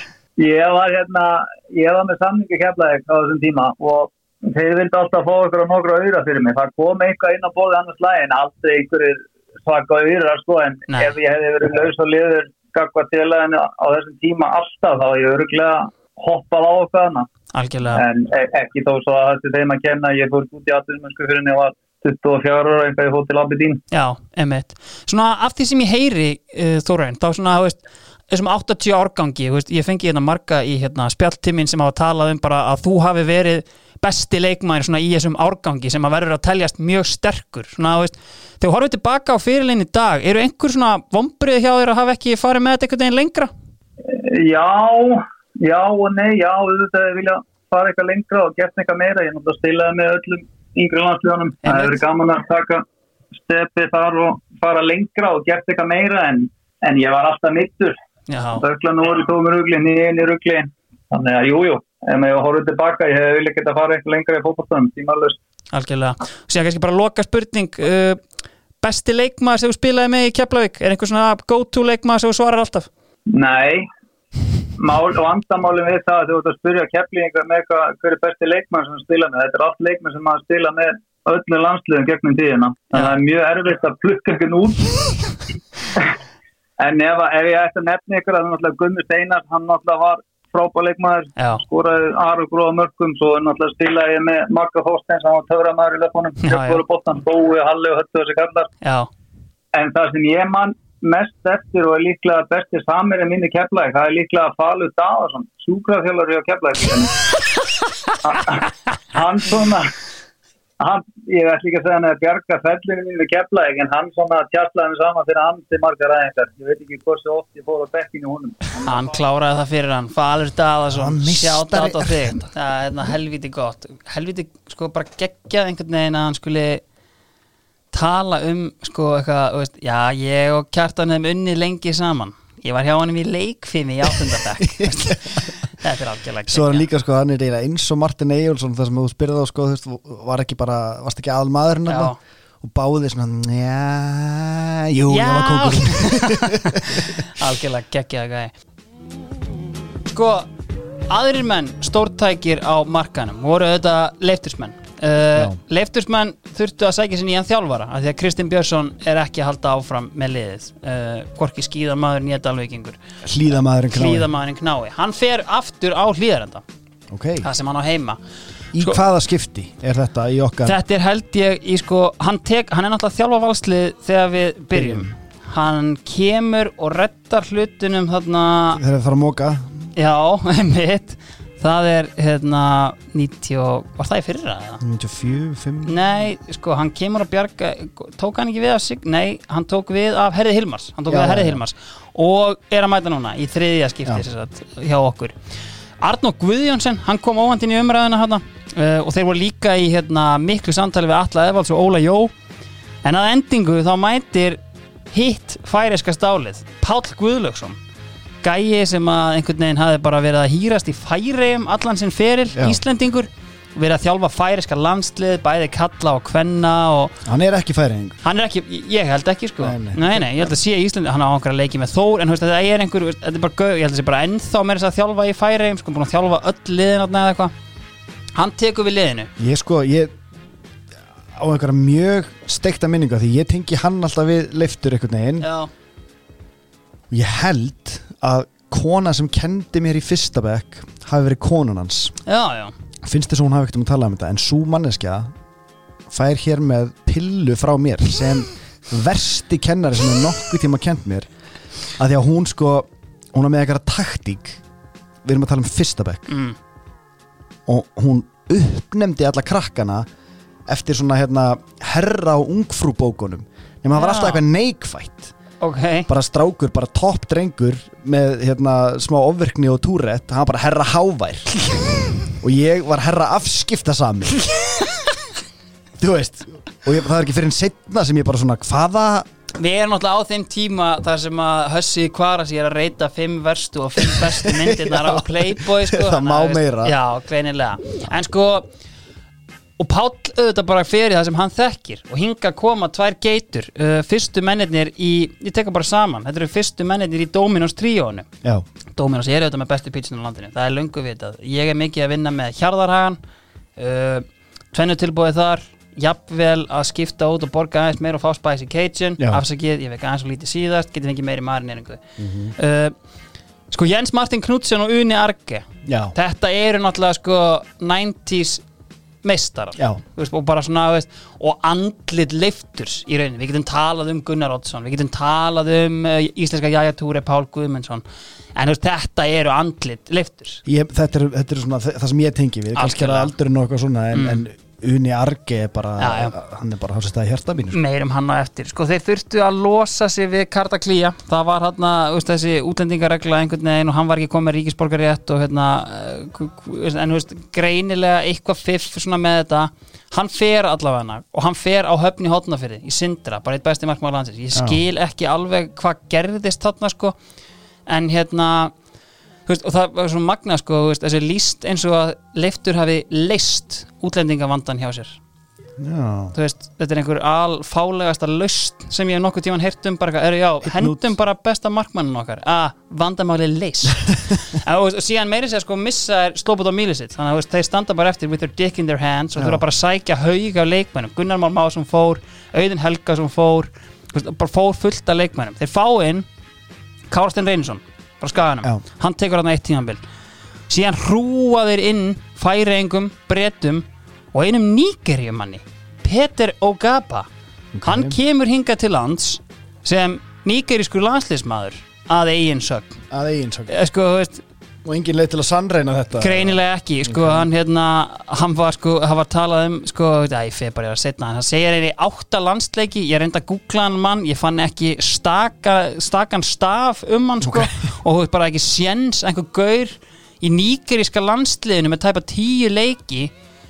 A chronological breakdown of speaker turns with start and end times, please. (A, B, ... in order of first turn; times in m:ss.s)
0:00.4-0:17.3 A
0:17.5-0:18.0 B
0:17.9-0:23.8 A
0:23.9-0:27.8 B
0:28.3-0:43.5 B
0:44.0-0:52.8 A
0:51.6-0:52.0 B
0:53.4-0:58.0 A
0:58.3-0:58.6 B
0:58.6-1:05.4 A
1:05.7-1:08.2 B
1:08.8-1:12.9 B
1:13.3-1:13.9 A
1:14.8-1:25.2 A
1:26.8-1:38.7 A
1:31.4-1:31.6 B
1:36.4-1:36.8 B
1:38.8-1:39.1 B
1:39.7-1:47.2 A
1:48.2-1:49.9 A
1:50.8-1:58.8 A
1:58.8-2:06.8 B
2:00.9-2:02.3 C
2:07.9-2:16.9 B
2:14.6-2:15.4 C
2:16.5-2:27.2 C
2:21.9-2:22.2 B
2:25.1-2:28.5 B
2:30.1-2:30.5 B
2:31.1-2:43.0 B
2:43.2-2:44.3 C
2:43.9-2:46.6 B
2:47.1-2:47.5 C
2:47.4-2:48.2 B
2:48.7-2:50.8 C
2:50.6-2:58.8 B
2:54.7-2:55.1 C
2:58.7-2:59.9 C
3:00.0-3:04.8 B
3:04.8-3:05.9 C
3:05.8-3:15.3 B
3:11.1-3:11.6 C
3:16.0-3:22.3 B
3:23.0-3:24.6 B
3:25.1-3:27.8 B
3:28.4-3:37.2 B
3:32.5-3:32.8 C
3:37.2-3:38.2 C
3:38.2-3:47.5 B
3:39.6-3:40.3 C
3:48.4-3:49.3 B
3:49.4-3:50.1 C
3:51.3-3:55.5 C
3:55.4-3:55.7 B
3:57.1-4:02.1 C
4:02.2-4:02.7 B
4:03.0-4:05.3 C
4:06.1-4:11.3 C
4:12.0-4:14.6 C
4:15.2-4:16.3 C
4:16.3-4:16.6 B
4:17.7-4:20.1 C
4:20.7-4:25.3 C
4:24.0-4:24.4 B
4:25.6-4:26.1 B
4:26.1-4:31.6 C
4:32.4-4:34.5 C
4:36.0-4:39.3 C
4:39.5-4:48.7 B
4:44.0-4:46.9 C
4:49.8-4:58.3 B
4:58.9-5:03.2 B
5:03.8-5:12.0 B
5:12.2-5:12.5 C
5:12.6-5:12.9 B
5:13.7-5:18.6 B
5:15.8-5:16.1 C
5:19.2-5:28.0 B
5:28.5-5:30.6 B
5:30.6-5:37.8 C
5:32.7-5:33.3 B
5:34.1-5:34.4 B
5:36.0-5:36.4 B
5:37.7-5:57.2 B
5:54.5-5:54.8 C
5:57.9-5:58.7 B
5:59.5-6:05.2 B
6:05.8-6:06.3 C
6:06.3-6:26.3 B
6:10.6-6:11.1 C
6:27.1-6:30.0 B
6:30.7-6:37.3 B
6:37.7-6:38.2 C
6:37.8-6:43.0 B
6:43.1-6:43.8 C
6:43.7-6:44.4 B
6:44.8-6:47.5 C
6:46.2-7:03.3 B
6:57.4-6:57.7 C